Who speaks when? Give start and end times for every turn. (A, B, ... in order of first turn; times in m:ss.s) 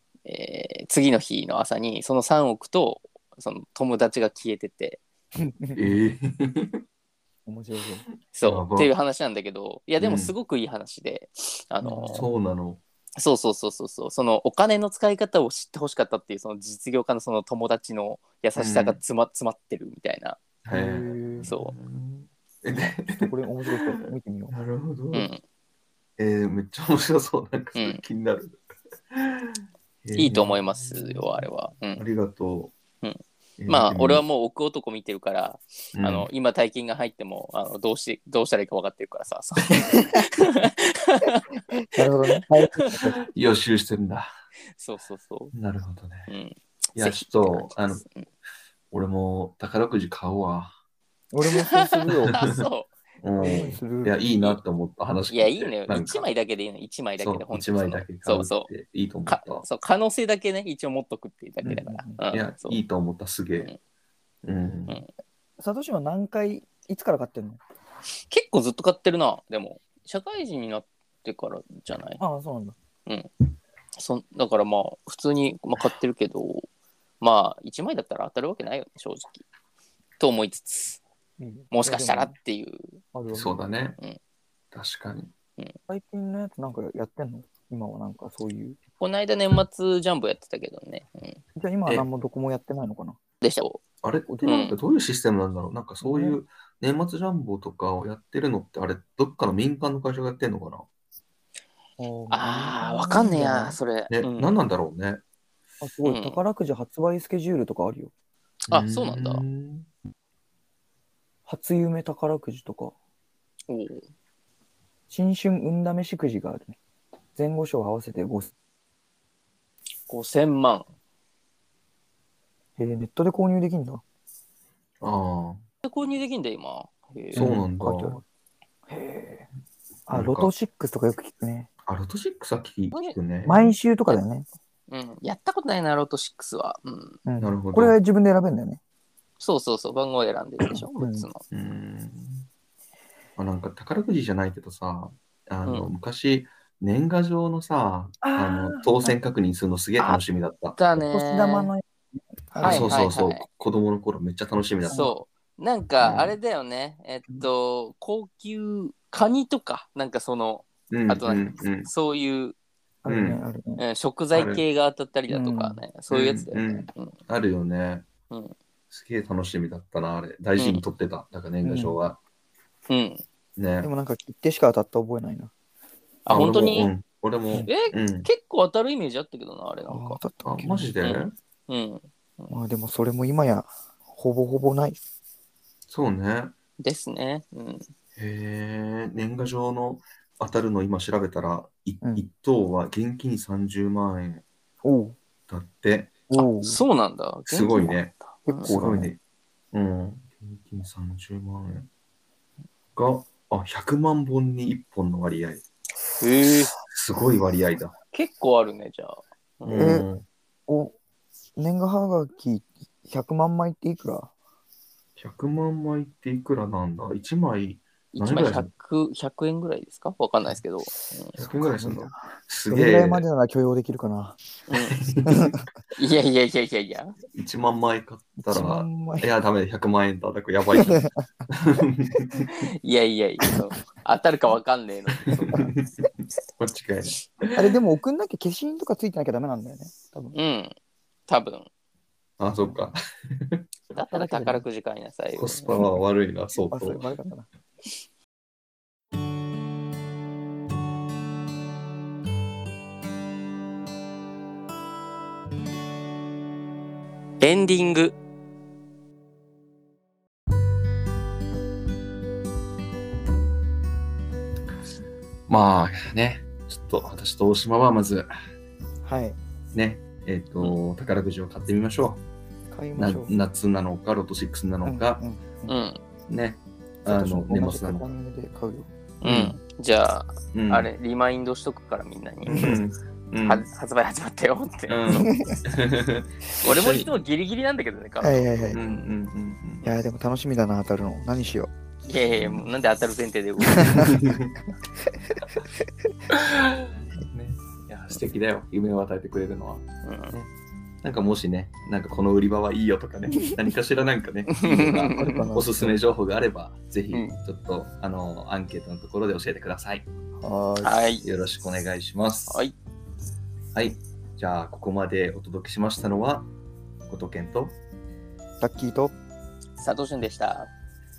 0:00.3-0:05.0 A
0:05.4-0:05.8 B
0:05.8-0:06.8 C
0:07.4-0:08.0 B
0:08.4-0:12.3 A
0:08.4-0:08.9 C
0:10.0-0:10.3 C
0:11.8-0:12.2 B
0:12.1-0:12.8 C
0:13.2-0:20.4 A
0:18.6-0:19.0 C
0:20.6-0:23.9 C
0:20.7-0:21.5 B
0:21.4-0:21.8 A
0:23.1-0:24.6 B
0:24.5-0:25.3 C
0:25.1-0:25.4 A
0:26.2-0:28.6 C
0:27.8-0:28.0 A
0:29.1-0:32.7 C
0:30.2-0:32.0 A
0:33.0-0:41.5 A
0:33.6-0:34.2 C
0:36.0-0:36.3 C
0:41.9-0:43.2 B
0:42.3-0:43.1 A
0:43.3-0:44.3 C
0:44.8-0:45.5 A
0:45.5-0:46.3 C
0:46.3-0:48.3 A
0:47.0-0:48.0 C
0:48.9-0:50.8 C
0:51.3-0:52.4 B
0:51.5-0:52.9 A
0:52.3-0:52.6 C
0:53.2-0:56.3 C
0:53.4-0:54.1 B
0:55.3-0:58.7 A
0:57.2-0:59.6 C
0:59.3-1:02.8 A
1:01.6-1:02.2 B
1:02.3-1:03.7 C
1:04.4-1:05.0 C
1:05.6-1:07.6 B
1:08.3-1:12.2 A
1:12.2-1:12.8 B
1:13.1-1:13.3 A
1:14.0-1:16.7 A
1:17.2-1:19.4 A
1:20.2-1:21.0 A
1:21.4-1:22.4 B
1:21.7-1:23.0 A
1:23.1-1:23.6 B
1:23.3-1:24.0 C
1:24.7-1:25.3 C
1:25.9-1:28.8 B
1:29.0-1:31.4 A
1:31.6-1:33.2 B
1:33.4-1:33.8 A
1:34.0-1:40.9 C
1:34.3-1:34.6 B
1:34.4-1:34.8 A
1:36.0-1:36.4 B
1:42.0-1:43.8 B
1:42.3-1:44.5 A
1:44.1-1:45.2 C
1:45.8-1:48.1 B
1:46.0-1:46.4 A
1:48.7-1:49.9 C
1:48.7-1:49.4 A
1:51.5-1:52.9 B
1:53.7-1:54.1 A
1:55.1-1:56.8 B
1:57.4-1:58.5 B
2:00.1-2:00.9 A
2:02.8-2:04.0 B
2:05.0-2:05.6 C
2:05.8-2:07.5 A
2:07.3-2:08.2 B
2:07.3-2:08.2 C
2:08.9-2:09.4 B
2:10.1-2:11.7 B
2:10.1-2:10.5 C
2:11.9-2:13.7 C
2:13.4-2:14.4 B
2:14.9-2:17.2 A
2:17.3-2:18.8 B
2:17.4-2:18.0 C
2:19.4-2:21.4 A
2:20.9-2:21.3 B
2:21.5-2:22.5 C
2:23.4-2:30.8 C
2:25.6-2:25.9 A
2:28.2-2:29.1 B
2:30.8-2:31.7 A
2:31.1-2:31.9 B
2:32.4-2:33.0 B
2:32.6-2:33.4 A
2:32.6-2:35.1 C
2:34.9-2:35.1 B
2:34.9-2:42.6 A
2:36.0-2:36.4 C
2:40.9-2:41.9 C
2:43.0-2:43.8 B
2:43.1-2:43.4 C
2:43.8-2:47.1 A
2:44.3-2:44.6 C
2:45.3-2:45.8 B
2:46.1-2:48.1 C
2:48.3-2:48.6 A
2:48.9-2:52.2 C
2:50.6-2:50.8 A
2:51.6-2:52.0 B
2:52.9-2:53.2 A
2:53.6-2:53.9 C
2:53.8-2:55.5 B
2:56.3-2:56.9 A
2:56.3-2:58.3 C
2:57.6-3:00.2 A
2:59.9-3:00.9 B
3:00.4-3:01.3 C
3:01.0-3:02.6 A
3:02.5-3:05.0 B
3:05.9-3:06.6 C
3:06.8-3:07.9 A
3:08.2-3:14.4 C
3:14.8-3:15.2 B
3:15.5-3:16.2 C
3:16.3-3:16.8 B
3:16.3-3:18.8 A
3:17.5-3:19.2 C
3:18.5-3:19.1 B
3:19.7-3:21.9 C
3:22.9-3:25.6 C
3:26.2-3:26.7 A
3:26.8-3:27.9 C
3:28.1-3:30.0 A
3:29.6-3:30.2 C
3:29.7-3:30.1 B
3:30.7-3:31.0 B
3:31.6-3:34.3 B
3:35.2-3:38.7 C
3:38.1-3:41.4 A
3:41.4-3:43.2 C
3:41.4-3:42.2 B
3:42.7-3:44.4 B
3:44.7-3:45.0 A
3:44.9-3:45.5 C
3:45.3-3:45.6 B
3:46.0-3:47.2 A
3:47.3-3:52.6 C
3:48.4-3:49.3 B
3:50.8-3:51.1 B
3:52.4-3:55.7 A
3:55.2-3:57.8 C
3:57.6-4:00.4 B
4:00.3-4:00.8 A
4:01.3-4:01.7 A
4:02.4-4:03.6 C
4:03.9-4:05.7 A
4:04.1-4:04.6 B
4:05.4-4:07.1 C
4:06.7-4:07.5 B
4:17.4-4:18.1 A
4:25.5-4:28.3 C
4:29.0-4:29.4 B
4:29.7-4:32.2 C
4:32.7-4:33.4 B
4:33.0-4:35.2 C
4:34.8-4:35.7 B
4:35.7-4:36.0 A
4:36.3-4:38.1 C
4:37.1-4:38.9 B
4:39.2-4:42.8 A
4:39.2-4:39.6 C
4:40.5-4:40.9 C
4:42.5-4:43.6 C
4:42.5-4:42.8 B
4:43.4-4:45.0 A
4:44.9-4:47.1 C
4:45.1-4:45.6 B
4:46.6-4:48.8 A
4:48.2-4:49.0 B
4:48.7-4:49.8 C
4:49.8-4:51.7 B
4:52.1-4:54.1 A
4:53.8-4:54.2 B
4:54.0-4:54.5 C
4:56.3-5:00.4 C
5:00.0-5:00.3 A
5:01.0-5:10.1 C
5:04.6-5:05.4 A
5:04.7-5:06.0 B
5:10.4-5:11.0 B
5:10.8-5:11.2 A
5:11.2-5:12.6 C
5:12.5-5:12.8 A
5:13.7-5:16.5 C
5:17.1-5:17.8 C
5:18.6-5:19.1 B
5:19.8-5:20.7 A